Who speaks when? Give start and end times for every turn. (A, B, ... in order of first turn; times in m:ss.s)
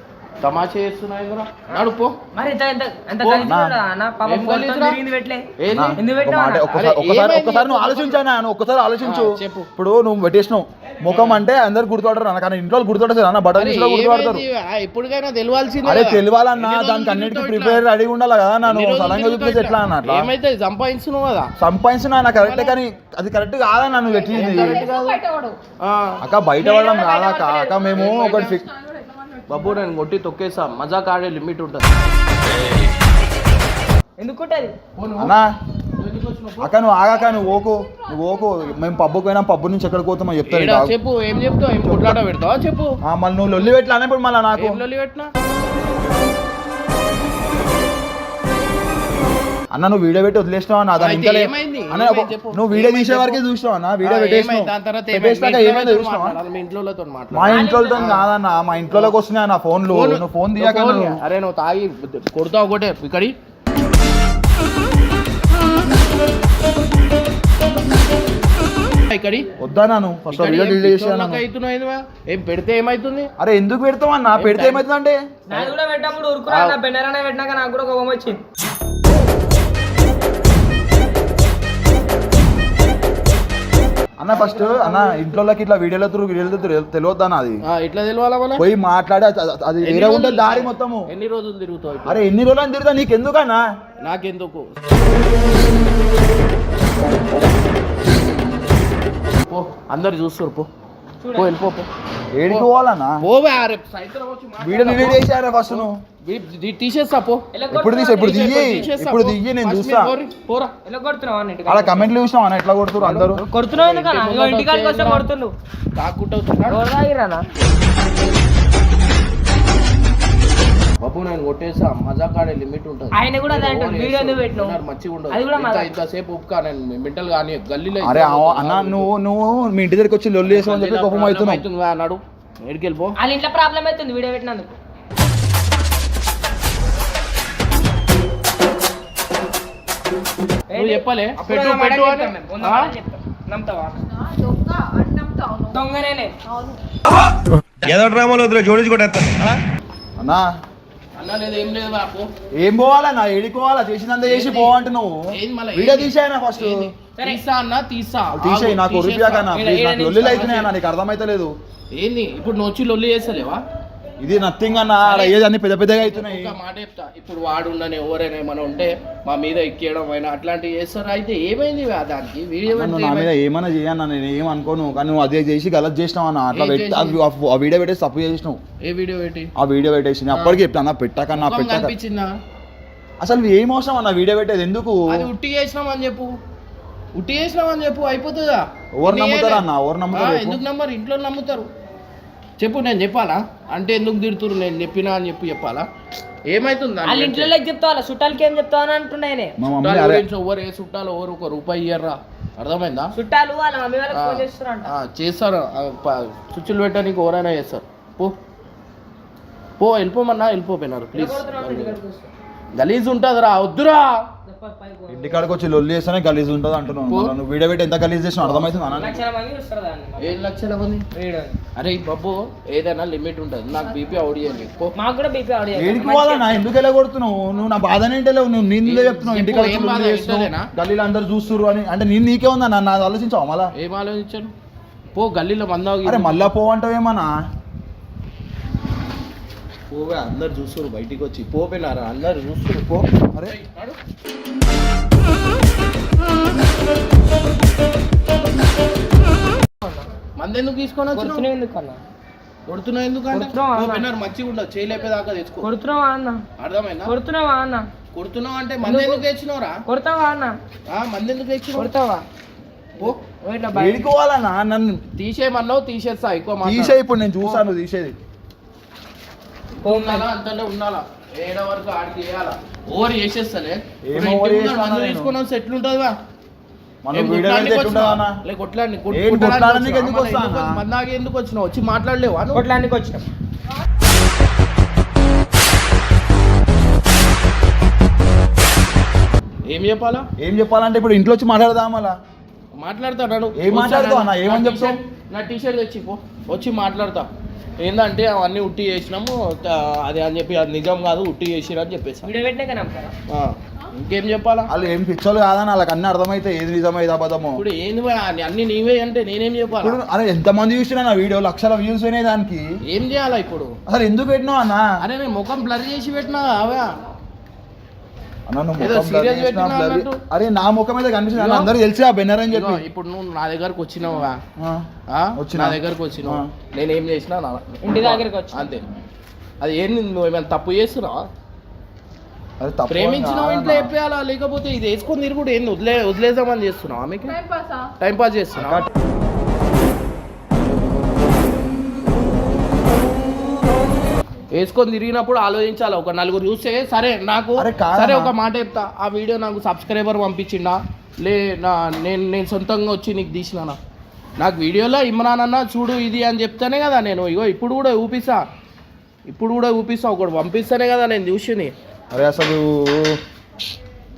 0:00.4-0:02.2 A
0:02.3-0:06.7 B
0:03.2-0:03.5 A
0:03.4-0:03.7 C
0:04.2-0:05.0 A
0:05.6-0:06.0 A
0:05.7-0:14.4 C
0:06.7-0:08.2 A
0:09.0-0:09.7 A
0:11.1-0:11.4 A
0:13.6-0:17.8 A
0:15.8-0:20.3 C
0:18.6-0:21.5 A
0:21.6-0:24.9 C
0:22.4-0:22.8 A
0:24.1-0:25.6 D
0:24.3-0:25.2 A
0:25.8-0:26.2 A
0:26.2-0:28.6 C
0:26.5-0:27.9 B
0:27.7-0:29.9 D
0:28.0-0:28.6 A
0:29.5-0:31.9 A
0:34.2-0:34.8 B
0:35.0-0:35.3 A
0:35.2-0:35.5 C
0:36.0-0:36.7 A
0:36.6-0:40.9 C
0:37.0-0:39.2 D
0:40.5-0:43.0 A
0:41.8-0:42.2 C
0:43.0-0:44.8 C
0:44.6-0:45.3 A
0:49.7-0:56.4 C
0:51.0-0:53.4 A
0:54.0-0:58.2 A
0:57.3-1:01.2 C
0:57.5-0:58.2 B
0:59.9-1:03.4 A
1:09.1-1:09.5 A
1:09.6-1:11.4 C
1:10.3-1:13.3 A
1:13.4-1:15.2 C
1:14.4-1:14.8 A
1:15.5-1:18.4 B
1:16.5-1:16.8 A
1:24.2-1:27.6 C
1:24.3-1:25.3 B
1:27.6-1:28.6 A
1:28.6-1:31.1 C
1:29.8-1:32.2 A
1:32.1-1:33.6 C
1:34.0-1:34.7 A
1:39.5-1:40.7 A
1:41.2-1:41.6 B
1:41.4-1:41.9 A
1:42.3-1:43.2 C
1:43.2-1:47.4 A
1:44.6-1:46.0 C
1:47.5-1:48.9 B
1:47.7-1:50.2 C
1:48.1-1:50.8 A
1:50.8-1:52.1 B
1:51.7-1:53.4 C
1:53.0-1:55.2 A
1:53.4-1:55.5 B
1:56.0-1:56.8 A
1:56.7-1:57.4 B
2:01.0-2:09.1 A
2:03.1-2:04.8 B
2:05.3-2:05.9 B
2:08.0-2:11.6 C
2:10.4-2:13.2 A
2:13.2-2:14.8 B
2:20.7-2:24.0 B
2:20.8-2:22.9 A
2:24.1-2:25.8 D
2:25.7-2:26.3 B
2:26.5-2:26.8 D
2:27.8-2:29.5 C
2:30.2-2:30.5 C
2:31.2-2:32.3 A
2:32.6-2:36.9 C
2:34.2-2:34.8 A
2:35.3-2:39.6 A
2:37.2-2:37.4 B
2:38.4-2:41.5 C
2:39.5-2:40.6 B
2:40.3-2:40.6 A
2:42.0-2:43.6 A
2:44.2-2:46.5 C
2:45.0-2:45.4 A
2:46.0-2:53.3 A
2:52.7-2:58.6 C
2:56.5-2:57.2 A
2:58.8-2:59.5 A
2:59.6-3:01.9 C
3:00.3-3:00.6 A
3:01.3-3:02.3 A
3:03.2-3:05.3 C
3:05.1-3:06.4 A
3:07.2-3:11.7 A
3:09.0-3:10.6 C
3:12.6-3:15.9 A
3:16.5-3:17.5 A
3:17.0-3:19.6 B
3:19.6-3:20.2 C
3:19.8-3:23.1 A
3:23.1-3:24.9 B
3:24.1-3:28.4 A
3:29.8-3:32.0 A
3:31.1-3:32.3 B
3:32.8-3:34.3 A
3:34.4-3:35.4 B
3:35.1-3:39.2 C
3:37.1-3:37.4 A
3:38.4-3:39.2 A
3:38.9-3:40.4 B
3:40.2-3:41.1 A
3:41.1-3:41.6 B
3:41.8-3:44.9 A
3:43.8-3:44.6 D
3:45.0-3:46.7 B
3:45.8-3:53.7 C
3:48.8-3:50.7 A
3:53.8-3:54.5 A
3:55.2-3:56.5 A
3:56.0-3:57.3 C
3:59.9-4:04.0 A
4:10.4-4:11.5 A
4:11.1-4:12.0 B
4:12.7-4:15.7 A
4:13.3-4:14.1 B
4:15.6-4:16.4 B
4:16.6-4:17.1 A
4:17.1-4:17.9 B
4:18.1-4:19.8 A
4:18.8-4:19.2 B
4:19.9-4:20.5 B
4:20.9-4:21.9 A
4:21.8-4:22.2 B
4:23.4-4:24.1 B
4:23.7-4:25.0 C
4:25.2-4:27.6 A
4:26.6-4:28.2 C
4:29.8-4:36.2 A
4:29.8-4:30.3 B
4:34.0-4:35.3 C
4:37.0-4:38.4 C
4:37.1-4:42.7 A
4:39.1-4:40.8 C
4:42.5-4:43.3 B
4:49.7-4:50.3 A
4:50.4-4:52.2 C
4:52.8-4:57.3 A
4:53.6-4:55.0 C
4:57.8-5:02.3 A
5:02.2-5:03.1 B
5:03.3-5:04.7 A
5:04.7-5:07.6 C
5:07.6-5:10.0 A
5:09.8-5:12.6 C
5:12.9-5:13.8 A
5:13.9-5:14.9 C
5:15.0-5:16.9 A
5:18.5-5:22.8 C
5:18.8-5:20.2 A
5:21.4-5:21.7 A
5:22.5-5:24.4 A
5:24.6-5:24.9 C
5:25.1-5:28.9 A
5:25.4-5:26.5 C
5:27.8-5:28.8 B
5:29.6-5:31.3 A
5:32.6-5:33.9 C
5:32.9-5:37.4 A
5:37.3-5:37.9 D
5:38.0-5:38.8 A
5:38.6-5:38.9 C
5:44.5-5:53.8 A
5:47.6-5:48.3 C
5:54.4-5:58.4 A
5:59.3-6:01.7 A
6:02.1-6:03.2 C